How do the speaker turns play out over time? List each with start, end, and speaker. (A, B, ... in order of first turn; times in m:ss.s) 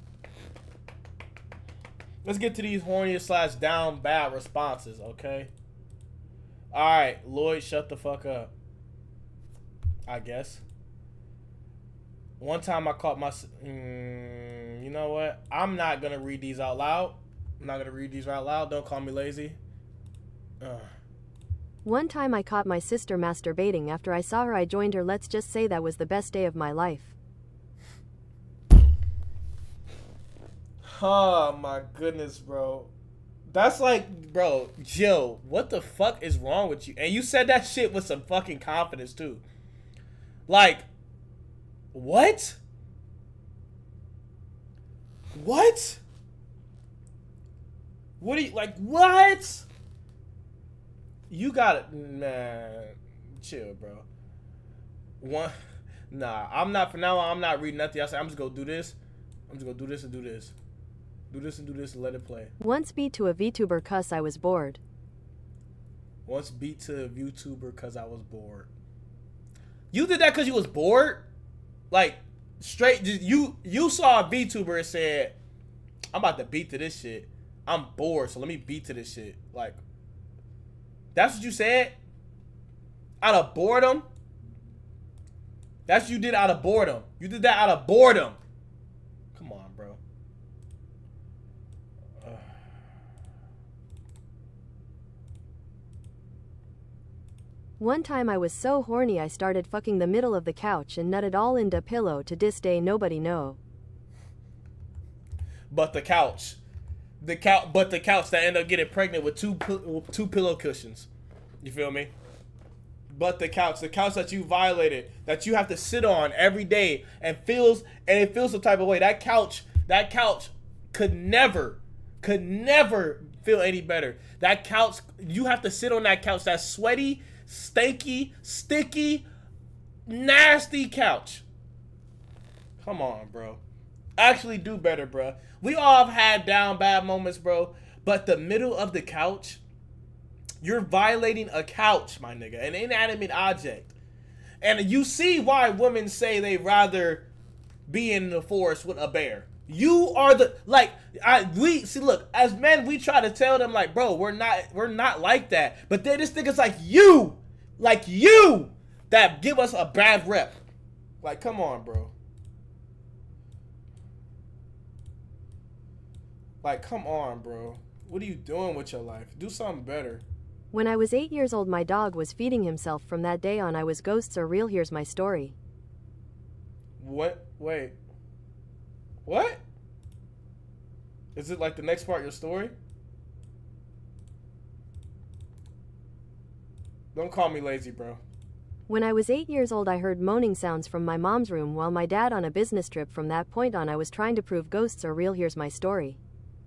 0:02.2-0:05.5 A
0:06.7-0:08.5 A
0:10.0-0:10.6 A
0:12.4-0:19.6 A
0:20.6-0:20.9 A
0:21.8-0:27.1 B
0:30.8-0:32.9 A
0:33.5-0:39.4 A
0:40.5-0:40.9 A
0:41.9-0:42.6 A
0:45.3-0:46.0 A
0:48.2-0:49.7 A
0:51.3-0:54.1 A
0:55.2-0:55.5 A
0:56.1-0:59.0 A
0:59.5-1:00.5 A
1:01.3-1:02.5 A
1:02.6-1:04.8 B
1:06.2-1:08.7 A
1:09.9-1:11.3 A
1:11.9-1:15.4 A
1:16.1-1:19.8 A
1:21.1-1:21.9 A
1:23.2-1:24.1 A
1:25.9-1:28.4 A
1:29.3-1:30.0 A
1:37.8-1:43.6 B
1:45.7-1:46.6 A
1:47.2-1:51.1 A
1:51.6-1:52.1 A
1:53.1-2:09.3 A
2:10.0-2:11.4 A
2:12.8-2:13.6 A
2:14.2-2:19.6 A
2:20.6-2:23.9 A
2:24.6-2:27.3 A
2:27.9-2:40.6 A
2:41.2-2:42.1 A
2:46.6-2:50.2 A
2:50.7-2:55.6 B
2:57.0-2:58.0 A
2:59.2-2:59.6 A
3:01.3-3:02.7 A
3:07.1-3:08.2 A
3:08.9-3:16.2 B